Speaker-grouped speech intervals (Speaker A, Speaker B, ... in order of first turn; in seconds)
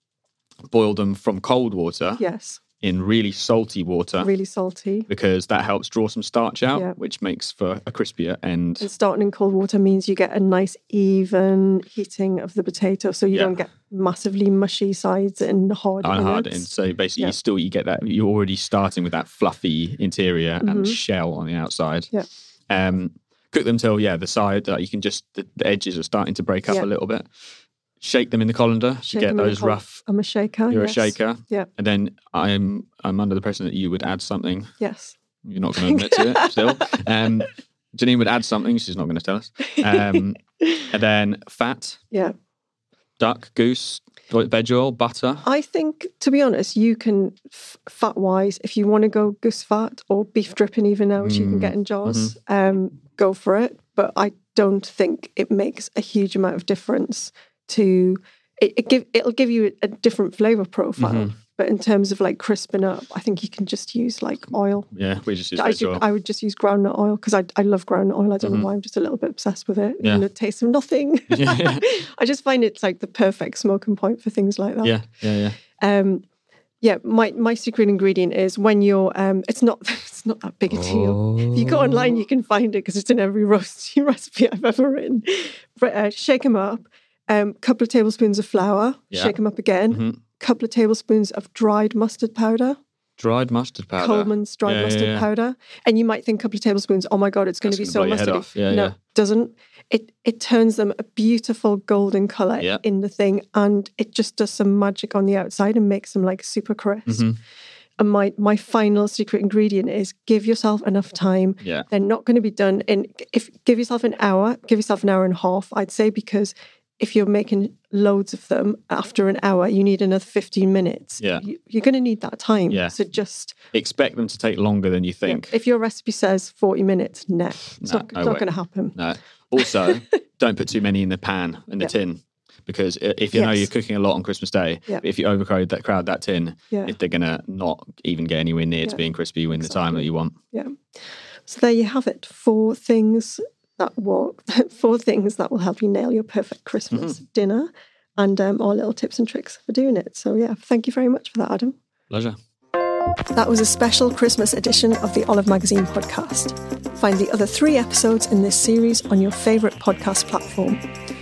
Speaker A: 0.7-2.2, 2.8-4.3, 5.1-8.9, 13.3-13.6, 16.0-22.1, 22.7-27.2, 28.0-30.0, 30.7-34.7, 35.5-42.0, 43.2-45.5, 51.2-52.3, 61.0-61.3, 64.9-66.0, 68.4-68.7, 71.3-71.9, 74.8-75.6, 80.7-82.2, 89.9-90.2, 93.2-95.3, 97.6-99.0, 107.1-107.4, 121.2-121.5, 122.7-123.0, 123.7-125.5, 127.8-140.3, 152.1-152.4
Speaker B: 2.2-2.6, 4.2-5.1, 8.8-17.4, 20.6-21.0, 29.1-31.7, 34.8-35.2, 35.9-37.0, 39.8-40.2, 45.4-64.9, 65.5-75.0, 75.8-76.2, 76.8-92.8, 94.0-107.3, 108.0-123.5, 125.2-129.0, 129.6-130.0, 133.3-133.7, 136.7-137.0, 138.8-140.8, 141.5-151.8, 153.3-160.8